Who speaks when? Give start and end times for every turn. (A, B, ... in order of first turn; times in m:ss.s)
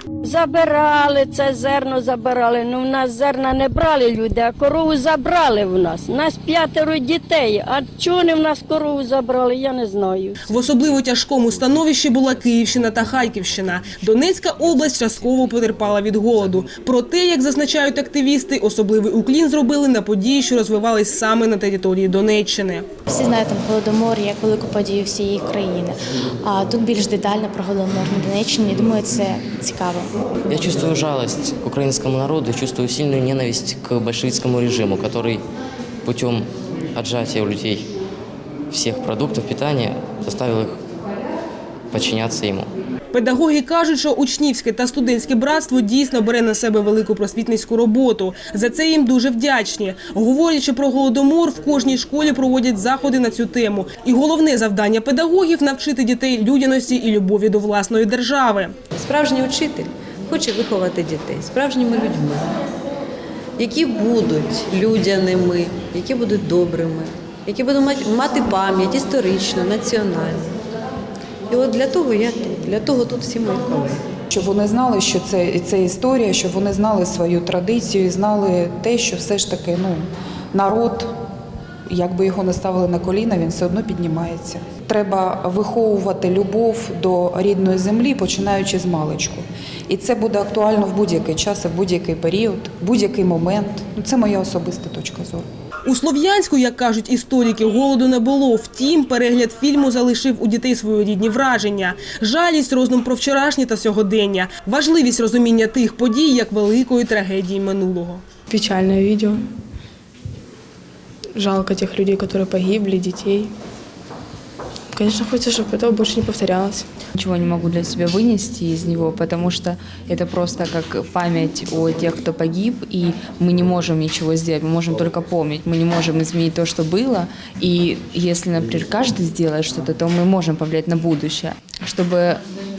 0:00.2-0:10.4 A
0:10.5-0:22.9 B
0:23.1-0:30.1 C
0:30.5-0:35.4 D
0:36.1-0:37.9 D
0:38.7-0:40.8 D
0:41.9-0:42.7 D
0:43.1-0:58.7 B
0:58.9-1:02.6 E
1:03.6-1:10.6 E
1:11.5-1:14.0 E
1:14.3-1:21.1 F
1:21.9-1:35.5 F
1:35.9-1:48.2 B
1:48.5-1:49.4 G
1:51.4-1:53.5 G
1:54.9-1:56.8 G
1:57.2-2:12.4 H